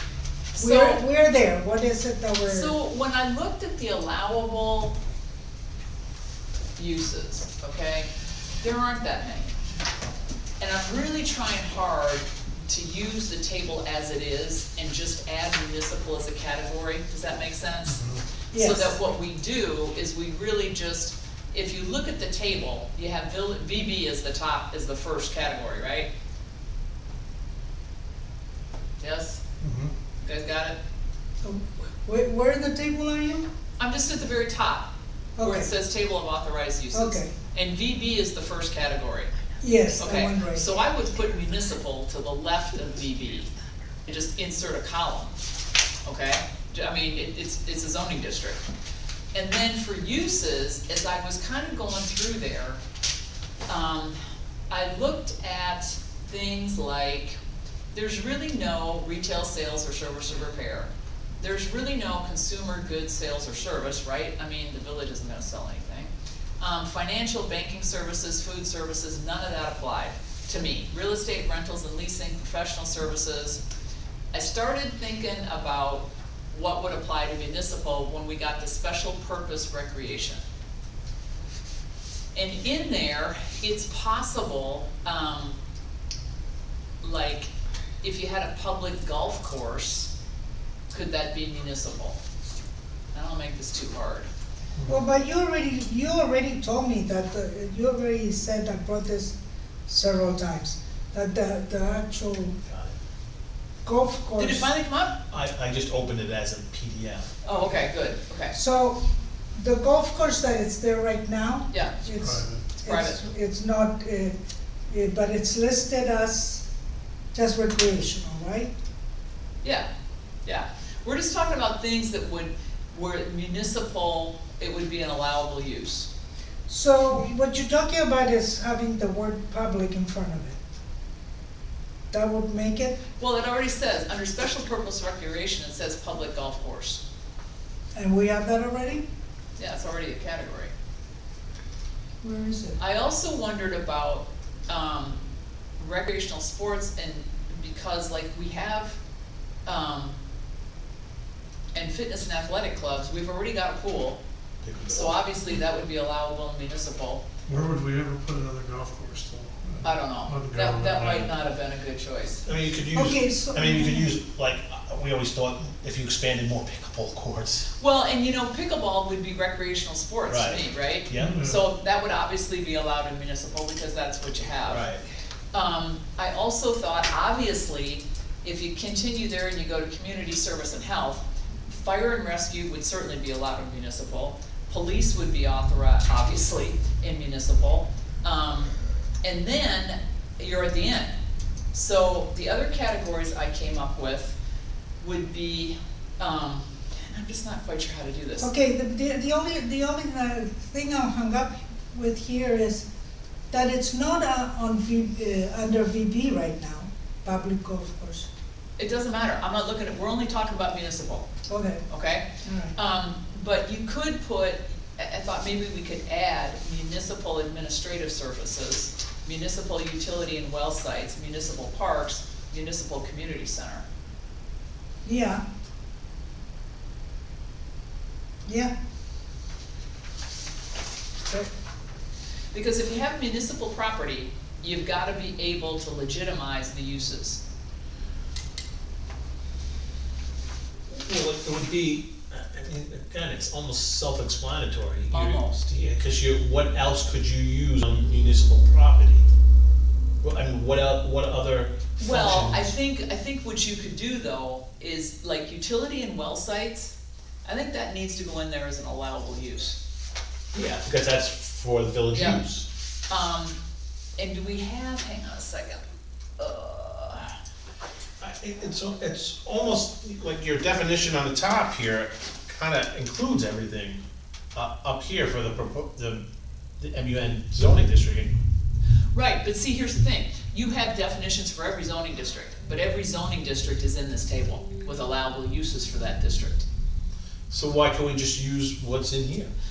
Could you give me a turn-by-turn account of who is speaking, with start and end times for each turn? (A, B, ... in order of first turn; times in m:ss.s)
0:00.6-0:01.0 A
0:00.6-0:02.7 B
0:02.4-0:05.0 A
0:06.8-0:08.1 A
0:08.6-0:09.5 A
0:10.6-0:26.1 A
0:17.9-0:18.2 C
0:18.5-0:18.9 B
0:29.0-0:29.4 A
0:29.6-0:29.9 C
0:30.2-0:30.8 A
0:31.4-0:33.5 B
0:33.8-0:39.3 A
0:35.4-0:35.7 B
0:36.9-0:37.3 B
0:39.6-0:40.7 B
0:39.9-0:43.5 A
0:44.1-0:45.4 A
0:46.0-0:48.6 A
0:49.3-0:52.8 A
0:53.7-0:54.2 A
0:54.7-0:57.4 A
0:57.9-1:13.6 A
1:14.3-1:20.4 A
1:22.3-1:25.6 A
1:27.0-1:27.5 A
1:28.0-1:30.1 A
1:30.9-1:32.2 A
1:33.1-1:34.3 A
1:34.9-1:39.4 B
1:39.9-1:42.6 B
1:42.7-1:43.0 D
1:43.8-1:44.7 B
1:44.4-1:45.2 A
1:45.3-1:47.3 D
1:47.4-1:48.5 A
1:48.5-1:49.0 B
1:49.5-1:54.4 B
1:51.7-1:52.0 A
1:52.2-1:52.6 C
1:52.8-1:53.2 A
1:54.9-1:56.6 B
1:57.3-1:58.7 B
1:59.6-1:59.9 A
2:00.4-2:06.1 A
2:06.7-2:10.6 B
2:12.1-2:13.0 B
2:13.2-2:17.0 A
2:18.0-2:19.0 B
2:19.6-2:20.7 A
2:22.2-2:22.8 B
2:22.8-2:25.2 A
2:25.8-2:29.0 A
2:29.6-2:30.2 A
2:31.7-2:34.2 A
2:34.6-2:35.2 D
2:34.9-2:37.2 A
2:37.5-2:41.3 C
2:39.8-2:42.5 A
2:42.5-2:47.7 D
2:42.9-2:44.1 B
2:47.8-2:54.9 A
2:50.3-2:51.4 D
2:51.2-2:51.6 C
2:54.6-2:55.0 D
2:55.5-3:11.1 A
3:11.7-3:14.4 A
3:15.0-3:18.5 A
3:18.4-3:22.8 B
3:23.5-3:28.3 B
3:28.8-3:31.3 A
3:31.5-3:31.8 B
3:31.9-3:43.8 A
3:32.4-3:32.8 B
3:45.0-3:45.4 B
3:48.5-3:48.7 B
3:52.5-3:57.4 A
4:00.9-4:09.3 D
4:05.1-4:05.6 A
4:10.2-4:12.7 D
4:12.0-4:19.8 A
4:20.5-4:22.7 D
4:22.1-4:22.5 A
4:23.1-4:23.6 A
4:24.2-4:25.8 A
4:26.4-4:27.4 A
4:28.2-4:34.0 D
4:34.5-4:36.2 D
4:36.8-4:38.3 D
4:39.1-4:46.6 A
4:47.5-4:49.5 D